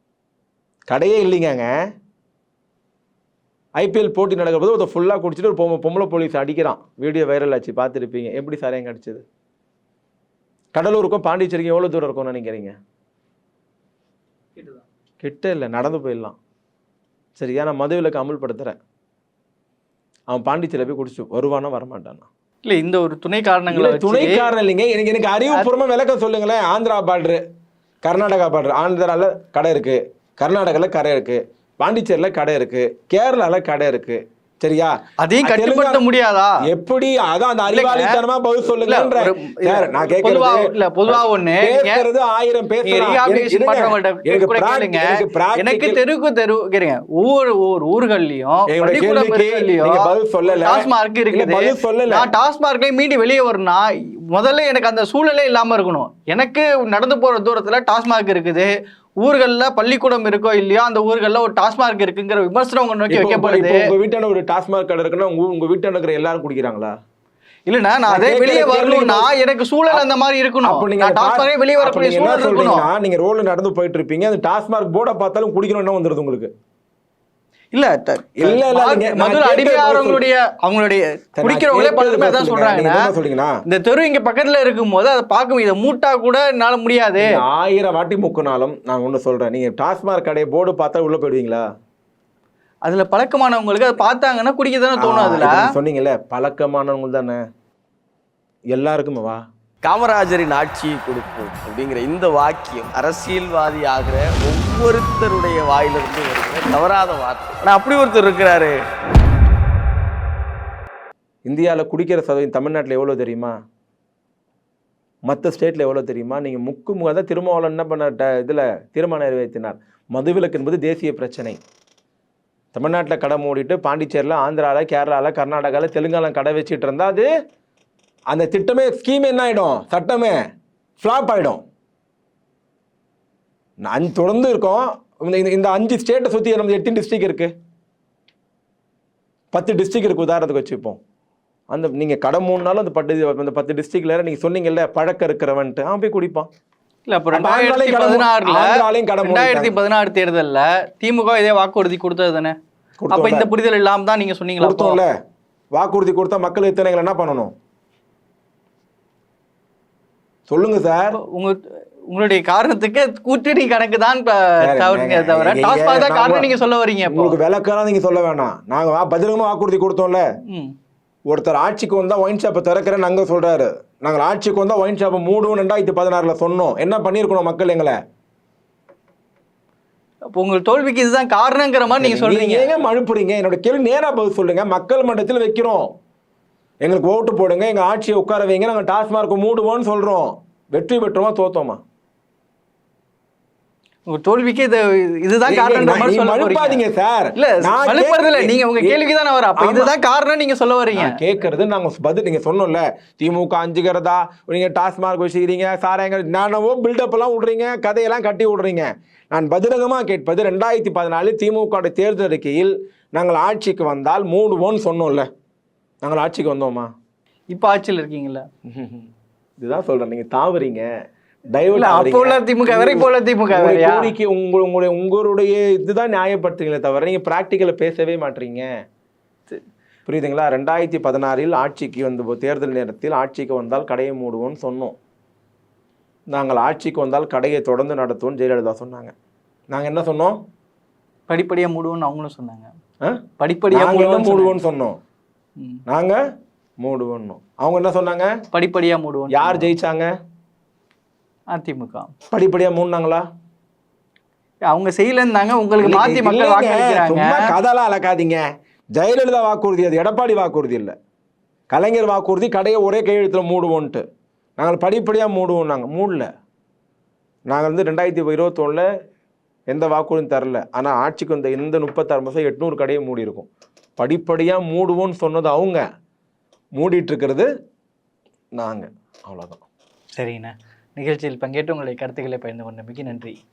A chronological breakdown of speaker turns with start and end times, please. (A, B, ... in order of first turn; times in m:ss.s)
0:00.9-0:01.7 A
0:03.8-0:09.2 A
0:10.7-0:12.7 A
0:15.2-0:16.4 A
0:17.4-0:18.8 A
0:20.3-0:22.3 A
0:22.6-0:24.5 B
0:23.7-0:27.4 A
0:28.0-0:36.0 A
0:35.2-0:36.6 B
0:36.6-0:46.0 A
0:37.7-0:42.0 B
0:42.8-1:03.9 B
0:48.7-0:52.3 A
1:03.1-1:06.9 A
1:07.7-1:12.9 B
1:08.1-1:09.3 A
1:10.6-1:16.5 A
1:17.7-1:23.1 B
1:18.4-1:20.2 A
1:21.4-1:23.5 A
1:23.7-1:27.4 B
1:27.2-1:31.6 A
1:32.8-1:35.6 B
1:35.0-1:37.4 A
1:38.7-1:39.4 A
1:39.8-1:48.8 C
1:51.4-1:53.5 A
1:55.3-2:01.6 A
2:02.7-2:07.3 A
2:08.3-2:10.4 A
2:11.0-2:11.6 A
2:13.8-2:17.5 A
2:19.5-2:21.0 A
2:21.7-2:26.5 A
2:27.1-2:32.6 B
2:27.3-2:29.8 A
2:33.0-2:33.5 A
2:33.1-2:35.0 B
2:34.6-2:35.1 A
2:35.7-2:37.5 A
2:40.5-2:41.2 A
2:41.2-2:47.4 B
2:44.6-2:46.5 A
2:47.1-2:50.2 A
2:50.5-2:50.7 B
2:51.3-2:57.9 A
3:00.3-3:02.7 B
3:02.0-3:05.8 A
3:06.8-3:11.8 A
3:14.1-3:16.8 B
3:15.5-3:19.0 A
3:17.4-3:21.2 B
3:19.6-3:19.9 A
3:20.9-3:35.2 A
3:36.0-3:36.9 A
3:37.5-3:38.4 B
3:38.6-3:39.1 A
3:39.6-3:40.8 A
3:41.5-3:48.7 A
3:41.7-3:44.1 B
3:50.0-3:54.9 A
3:56.3-3:59.1 A
3:59.7-4:00.4 A
4:01.3-4:02.7 B
4:03.0-4:05.0 A
4:03.4-4:04.6 B
4:05.9-4:06.2 A
4:06.8-4:08.3 A
4:08.5-4:09.7 B
4:09.3-4:10.1 A
4:11.5-4:12.1 B
4:12.3-4:13.2 A
4:14.7-4:17.5 B
4:15.8-4:18.4 A
4:19.0-4:20.9 A
4:21.7-4:24.0 A
4:24.6-4:26.3 A
4:27.5-4:28.8 A
4:29.7-4:35.8 A
4:36.8-4:37.5 A
4:38.6-4:39.6 A
4:40.2-4:43.4 B